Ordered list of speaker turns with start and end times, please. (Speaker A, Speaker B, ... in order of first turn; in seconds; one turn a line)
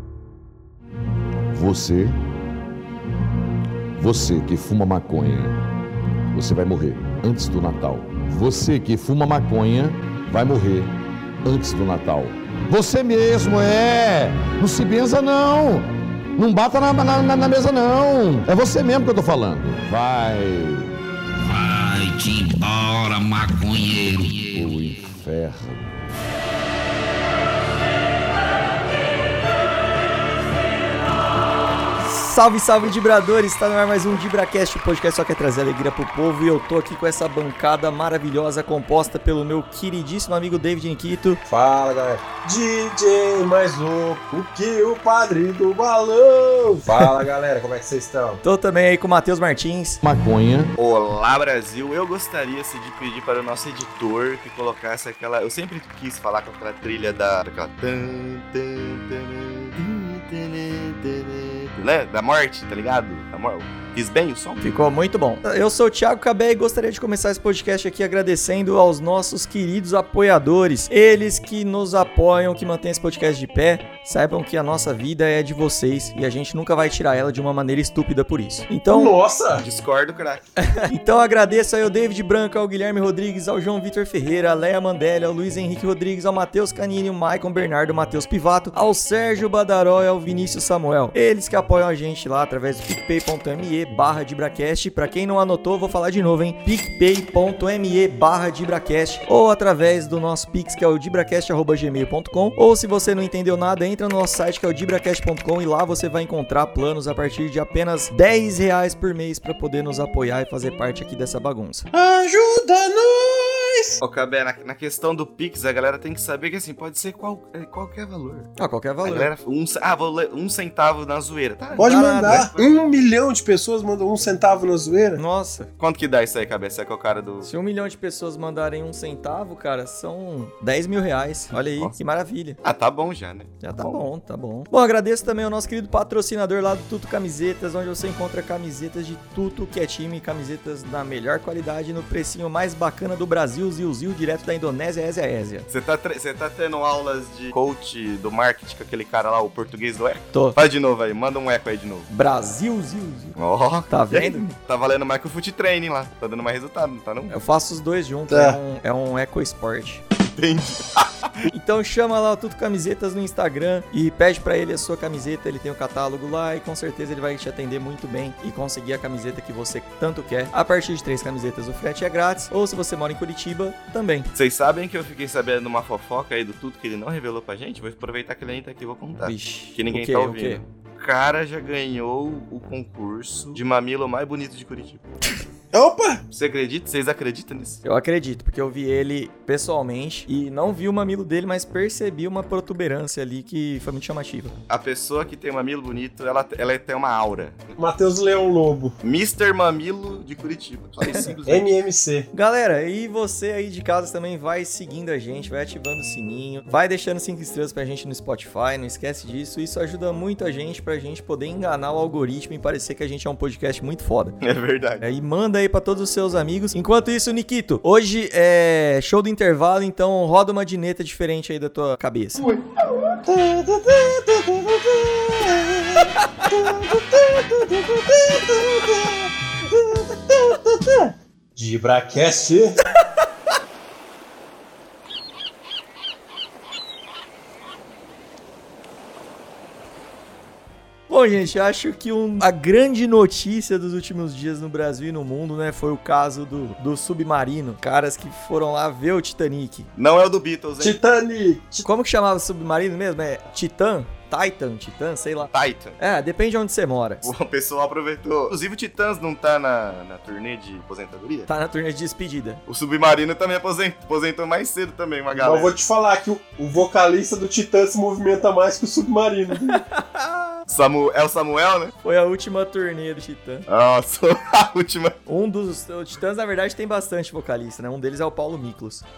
Speaker A: 1.5-2.2
Speaker A: 4.0-5.6
Speaker A: 6.3-20.9
Speaker B: 21.8-24.1
Speaker A: 23.7-25.9
Speaker C: 32.0-41.4
Speaker D: 41.5-48.4
Speaker C: 48.4-50.0
Speaker A: 50.0-50.7
Speaker E: 50.8-64.7
Speaker C: 64.6-79.1
Speaker D: 78.9-79.6
Speaker E: 79.6-80.4
Speaker C: 80.6-111.8
Speaker D: 111.9-114.0
Speaker E: 114.0-118.5
Speaker C: 118.6-119.3
Speaker E: 119.0-122.7
Speaker C: 121.7-122.5
Speaker D: 121.8-125.2
Speaker C: 125.2-125.7
Speaker E: 125.8-127.5
Speaker C: 127.4-132.6
Speaker E: 132.6-134.1
Speaker C: 133.6-145.7
Speaker E: 145.7-152.1
Speaker C: 152.1-153.3
Speaker E: 153.3-157.3
Speaker C: 153.9-154.5
Speaker C: 157.3-160.0
Speaker D: 158.3-158.6
Speaker E: 160.2-161.5
Speaker C: 161.5-174.3
Speaker E: 174.3-185.0
Speaker C: 179.2-180.6
Speaker D: 185.7-186.2
Speaker E: 186.3-187.8
Speaker C: 187.8-194.5
Speaker E: 194.7-197.8
Speaker D: 197.8-198.9
Speaker E: 199.0-201.8
Speaker D: 201.5-202.3
Speaker C: 202.3-214.3
Speaker E: 214.4-215.0
Speaker C: 215.0-222.4
Speaker D: 222.4-232.8
Speaker C: 226.0-226.4
Speaker C: 241.1-249.9
Speaker E: 249.9-251.0
Speaker D: 250.8-251.8
Speaker C: 251.8-257.3
Speaker E: 255.5-256.0
Speaker E: 257.2-261.5
Speaker C: 261.5-262.6
Speaker E: 262.7-265.7
Speaker D: 265.3-269.8
Speaker C: 269.6-270.6
Speaker E: 270.7-271.9
Speaker C: 272.0-273.6
Speaker E: 273.7-275.1
Speaker C: 275.3-279.0